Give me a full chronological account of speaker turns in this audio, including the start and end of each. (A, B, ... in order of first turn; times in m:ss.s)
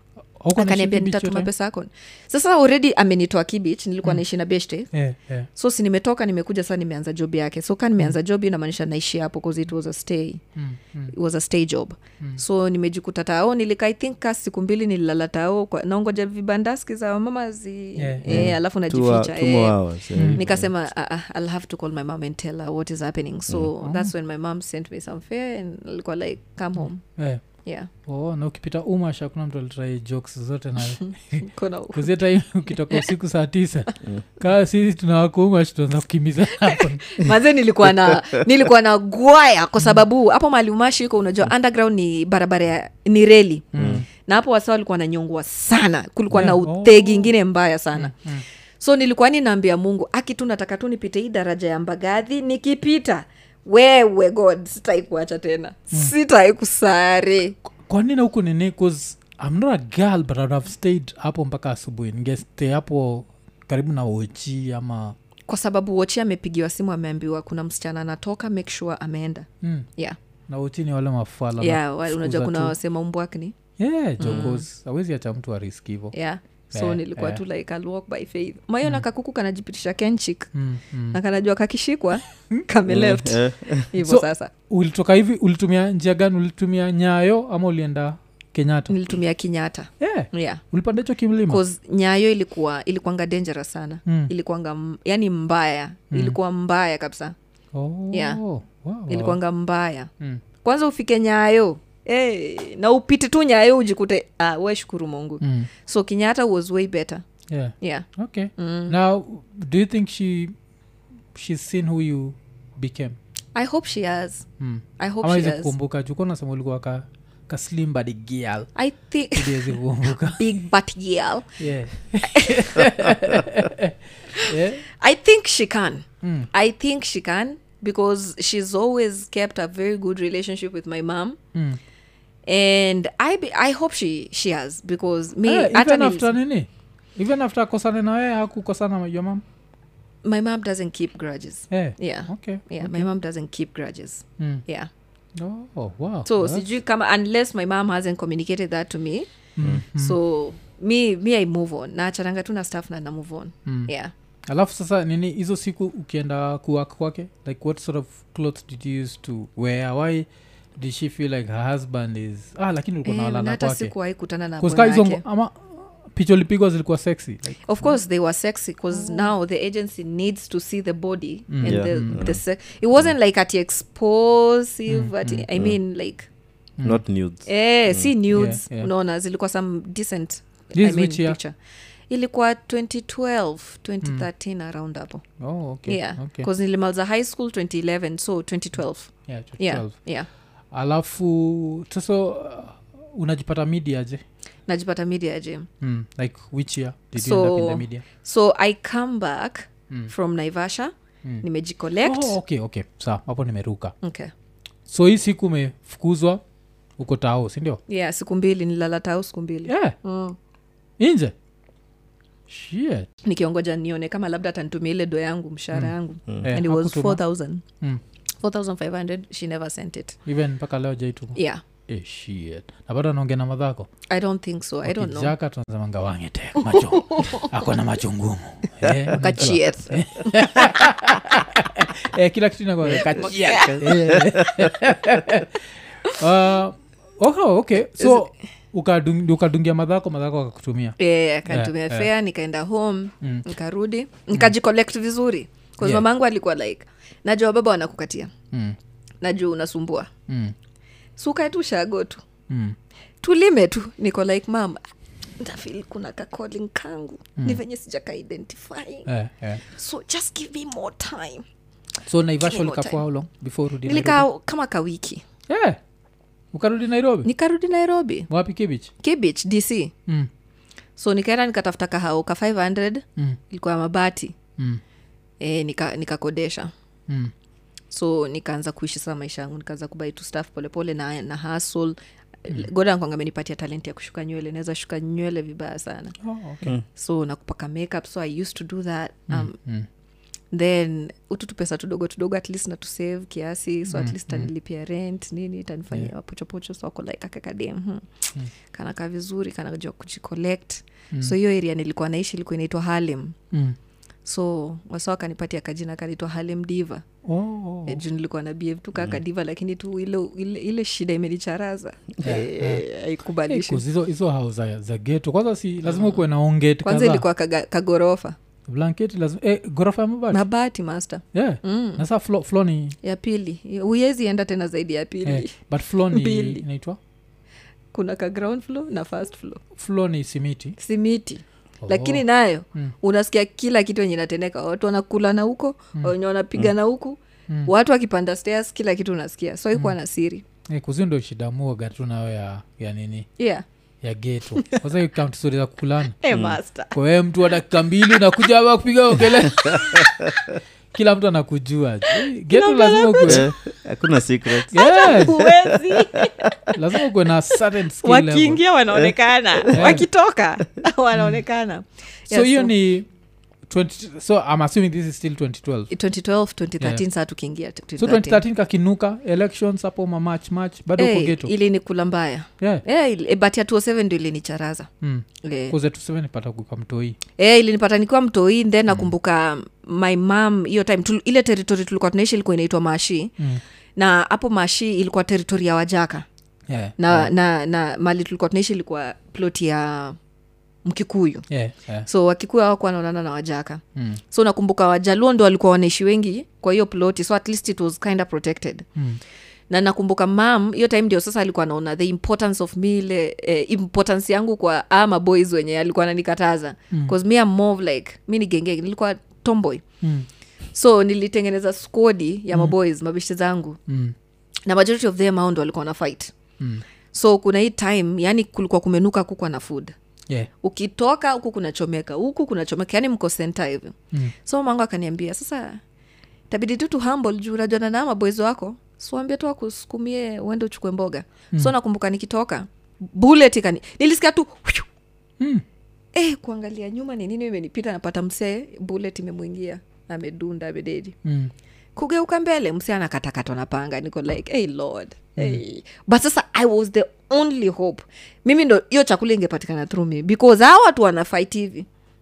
0:00.4-0:01.5 A
0:00.5-0:04.9 B
0:04.9-0:05.5 A
0:05.6-0:10.4 B
0:10.6-0:11.1 A
0:11.1-0:27.0 B
0:18.0-0:18.6 A
0:18.3-0:20.7 C
0:20.1-0:20.4 A
0:23.8-0:24.1 A
0:26.8-0:27.4 A
0:27.6-0:27.9 B
0:28.0-0:37.1 A
0:30.8-0:33.1 B
0:36.6-0:48.1 B
0:43.7-0:44.1 A
0:43.8-0:44.0 C
0:46.3-0:47.4 A
0:48.0-0:48.4 A
0:48.8-0:57.6 B
0:57.9-1:05.2 A
1:05.5-1:10.2 B
1:09.6-1:09.9 A
1:10.5-1:12.8 A
1:11.6-1:13.5 B
1:13.8-1:16.2 A
1:14.2-1:14.6 B
1:16.1-1:20.5 B
1:16.7-1:17.4 A
1:20.5-1:21.2 A
1:21.1-1:24.5 B
1:22.9-1:23.9 C
1:24.0-1:29.0 A
1:28.9-1:30.6 B
1:30.0-1:31.6 A
1:31.5-1:37.4 B
1:34.1-1:34.3 A
1:36.1-1:36.4 A
1:37.7-1:39.4 A
1:38.1-1:38.4 B
1:39.1-1:40.1 B
1:40.6-1:47.2 B
1:45.4-1:45.7 A
1:47.5-1:50.6 A
1:47.8-1:49.0 B
1:51.3-1:53.2 A
1:53.6-1:54.5 B
1:54.6-1:58.7 A
1:55.0-1:55.7 B
1:58.8-1:59.8 B
1:59.4-2:00.4 A
2:00.3-2:01.6 B
2:01.6-2:04.9 A
2:02.2-2:02.9 B
2:04.3-2:11.4 B
2:06.2-2:06.5 A
2:11.5-2:11.8 A
2:12.5-2:16.4 B
2:15.5-2:19.4 A
2:20.2-2:24.9 B
2:21.7-2:23.1 A
2:24.4-2:24.6 A
2:25.4-2:26.7 A
2:26.3-2:29.3 B
2:29.6-2:30.2 A
2:29.9-2:34.1 B
2:33.7-2:33.9 A
2:34.5-2:43.9 A
2:43.0-2:45.2 B
2:44.6-2:47.9 A
2:47.6-2:56.3 B
2:48.9-2:49.3 A
2:51.5-2:52.2 A
2:51.6-2:52.4 C
2:54.9-2:55.5 A
2:56.8-2:57.0 A
2:56.8-2:58.4 C
2:57.5-3:01.6 B
2:58.3-2:58.9 A
3:00.8-3:01.4 A
3:02.1-3:05.2 B
3:05.4-3:06.5 A
3:05.9-3:10.3 B
3:09.3-3:10.0 A
3:10.7-3:14.2 A
3:14.7-3:15.7 B
3:15.8-3:18.0 A
3:17.2-3:22.4 B
3:22.0-3:24.0 A
3:24.0-3:24.3 B
3:24.9-3:26.4 A
3:27.0-3:27.8 A
3:27.9-3:30.4 B
3:29.7-3:30.0 A
3:31.0-3:31.3 A
3:32.5-3:33.1 A
3:33.2-3:37.6 B
3:35.7-3:37.2 A
3:38.4-3:40.2 B
3:40.3-3:43.9 A
3:41.4-3:41.6 B
3:44.1-3:45.3 B
3:44.8-4:01.0 A
3:46.7-3:47.5 B
3:49.1-3:50.7 B
3:53.0-3:53.9 B
3:53.0-3:54.7 C
4:01.0-4:08.3 B
4:01.5-4:02.1 A
4:08.5-4:08.8 A
4:09.2-4:10.1 B
4:10.3-4:10.6 A
4:11.2-4:12.2 B
4:12.5-4:12.8 A
4:13.2-4:14.8 B
4:15.4-4:19.1 B
4:19.1-4:19.6 A
4:19.6-4:21.4 B
4:22.1-4:24.3 A
4:22.4-4:23.0 B
4:23.8-4:25.2 B
4:25.5-4:25.8 A
4:26.5-4:27.3 A
4:27.2-4:28.3 B
4:28.3-4:28.9 A
4:29.0-4:29.9 B
4:31.0-4:34.4 B
4:35.4-4:36.7 B
4:37.1-4:37.3 A
4:37.9-4:46.2 B
4:46.2-4:46.7 A
4:46.9-4:49.6 B
4:49.3-4:49.9 A
4:50.5-4:58.1 B
4:53.9-4:54.5 A
4:58.7-5:03.4 B
5:03.5-5:03.8 A
5:04.2-5:07.0 B
5:07.2-5:08.0 A
5:07.9-5:13.8 B
5:12.2-5:12.8 A
5:13.5-5:17.2 A
5:15.8-5:16.2 B
5:16.8-5:18.4 B
5:18.7-5:20.4 A
5:20.3-5:22.0 B
5:21.3-5:23.0 A
5:23.0-5:25.6 B
5:25.2-5:27.0 A
5:26.1-5:26.6 B
5:27.9-5:29.6 B
5:29.8-5:30.8 A
5:30.8-5:40.4 B
5:31.8-5:33.0 A
5:40.7-5:43.3 A
5:43.4-5:43.6 B
5:44.0-5:46.2 A
5:44.5-5:44.9 B
5:46.2-5:47.0 B
5:46.3-5:46.6 C
5:46.9-5:50.0 A
5:49.4-5:50.2 B
5:49.7-5:50.1 C
5:50.9-5:53.5 A
5:52.5-5:53.5 B
5:53.3-5:56.1 C
5:54.7-5:55.4 A
5:54.7-5:57.1 B
5:56.7-5:58.6 A
5:58.0-6:02.7 B
5:58.9-5:59.8 C
5:59.7-6:00.1 A
6:01.2-6:01.4 A
6:02.3-6:03.1 A
6:03.7-6:05.9 A
6:05.9-6:08.4 B
6:08.0-6:11.5 A
6:11.0-6:14.9 B
6:15.0-6:17.2 A
6:15.4-6:15.8 B
6:17.4-6:23.4 B
6:24.0-6:26.3 B
6:26.7-6:27.3 A
6:27.0-6:30.2 B
6:30.8-6:31.5 B
6:31.5-6:32.1 A
6:32.1-6:38.9 B
6:34.0-6:34.2 A
6:39.7-6:49.8 B
6:50.0-6:50.3 A
6:50.7-6:53.8 B
6:53.9-6:54.2 A
6:54.7-6:56.3 B
6:56.6-6:56.8 A
6:57.1-7:00.0 B
7:00.6-7:05.8 B
7:06.5-7:14.9 B
7:15.4-7:15.6 A
7:16.1-7:21.2 B
7:21.2-7:21.5 A
7:22.0-7:31.9 B
7:25.4-7:25.6 A